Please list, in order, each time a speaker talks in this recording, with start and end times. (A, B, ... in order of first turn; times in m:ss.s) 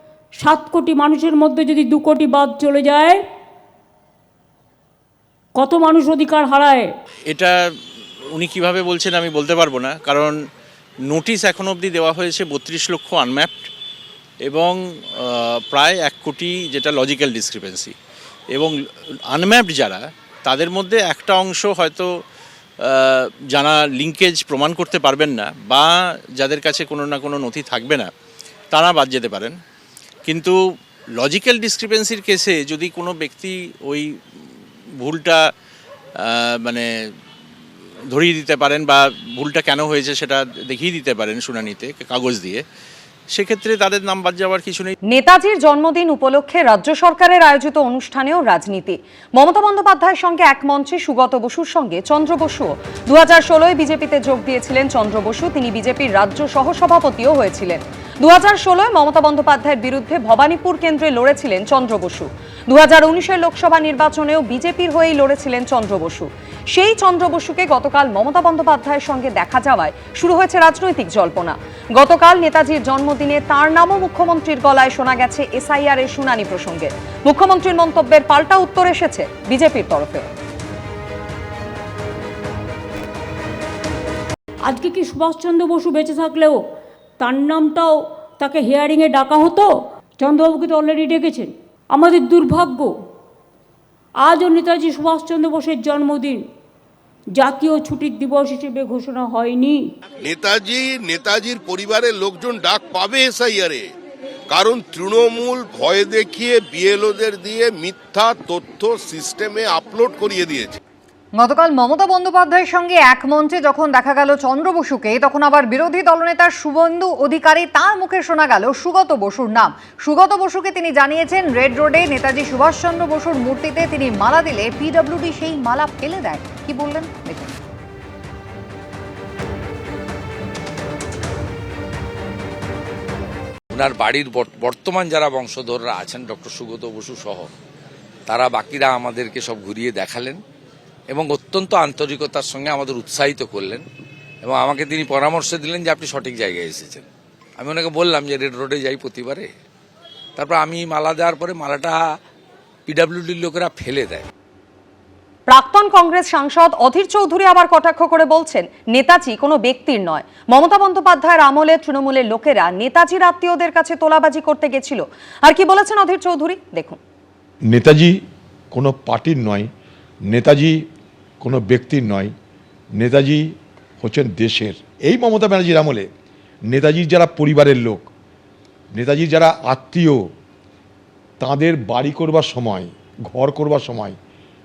0:00.4-0:03.2 A
0:05.6-0:06.9 A
0:07.3-0:07.6 B
0:08.3-0:10.4 B
0:11.1-0:13.7 B
0:14.4-0:17.9 B
0:19.3-0:22.1 B
0:22.8-0:28.1 B
0:28.7-0:29.6 B
0:30.3-0:30.6 B
0:31.2-0:34.1 B
0:35.0-0:35.4 B
0:36.2-0:36.9 B
0:38.1-0:42.6 B
0:43.3-0:44.9 B
0:45.1-1:20.3 C
1:24.7-1:26.6 A
1:27.2-1:32.9 A
1:34.2-1:36.4 A
1:37.4-1:39.8 A
1:40.2-1:43.9 D
1:44.5-1:50.8 D
1:51.4-2:07.6 E
2:13.7-2:17.5 F
2:18.3-2:20.4 F
2:21.1-2:23.8 F
2:24.4-2:27.1 F
2:27.6-2:29.5 F
2:30.4-2:32.0 F
2:32.9-2:34.3 F
2:35.5-2:47.0 C
2:47.7-2:48.2 G
2:48.7-2:49.7 G
2:50.3-2:50.8 G
2:51.4-2:52.3 G
2:53.0-2:53.5 G
2:54.0-2:56.1 G
2:56.7-2:58.1 G
2:59.0-3:00.2 G
3:01.4-3:04.2 G